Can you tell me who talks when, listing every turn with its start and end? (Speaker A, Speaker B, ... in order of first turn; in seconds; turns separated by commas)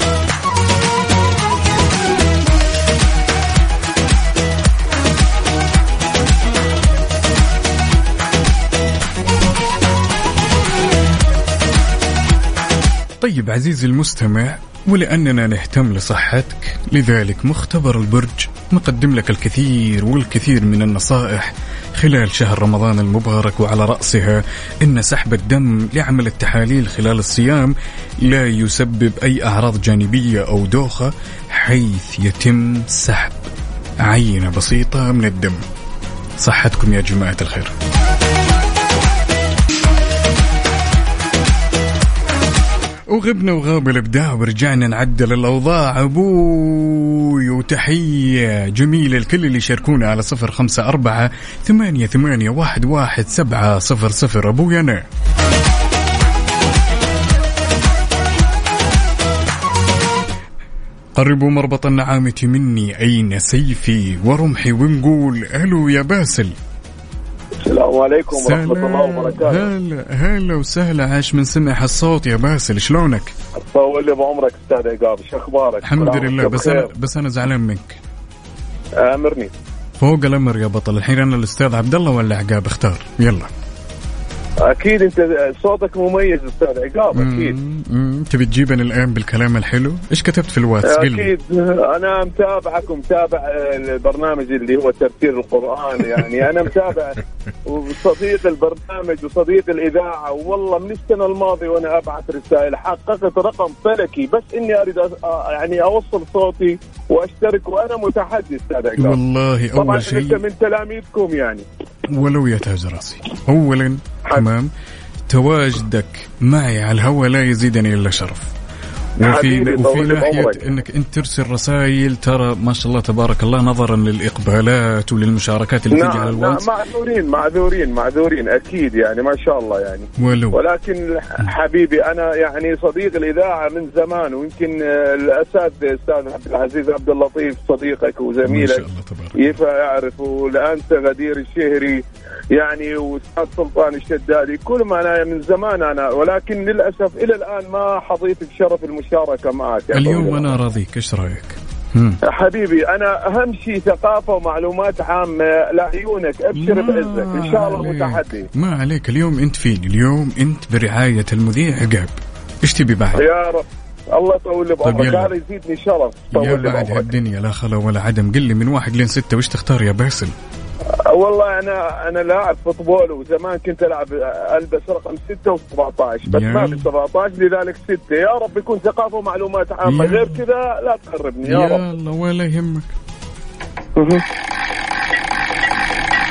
Speaker A: 13.2-33.5, Speaker A: 34.0-35.6, Speaker A: 36.4-37.7, Speaker A: 43.1-55.0, Speaker A: 61.2-66.6, Speaker B: 67.7-69.7, Speaker A: 68.3-73.3, Speaker B: 73.7-76.9, Speaker A: 75.8-78.0, Speaker B: 79.0-79.5, Speaker A: 80.0-83.5, Speaker B: 84.7-87.5, Speaker A: 87.1-91.3, Speaker B: 90.8-109.2, Speaker A: 109.0-110.4, Speaker B: 109.8-111.7, Speaker A: 112.1-114.7, Speaker A: 115.3-118.5, Speaker A: 119.2-126.7, Speaker B: 119.2-120.7, Speaker B: 125.9-138.8, Speaker A: 130.2-130.6, Speaker A: 138.5-139.5, Speaker B: 139.4-142.0, Speaker B: 142.5-150.5, Speaker A: 149.9-152.2, Speaker B: 152.3-158.5, Speaker A: 156.6-163.2, Speaker B: 163.2-167.1, Speaker A: 164.8-165.3, Speaker A: 166.3-170.3, Speaker B: 171.1-181.8, Speaker A: 176.3-176.9, Speaker A: 179.8-180.4, Speaker A: 181.4-182.9, Speaker B: 184.0-184.2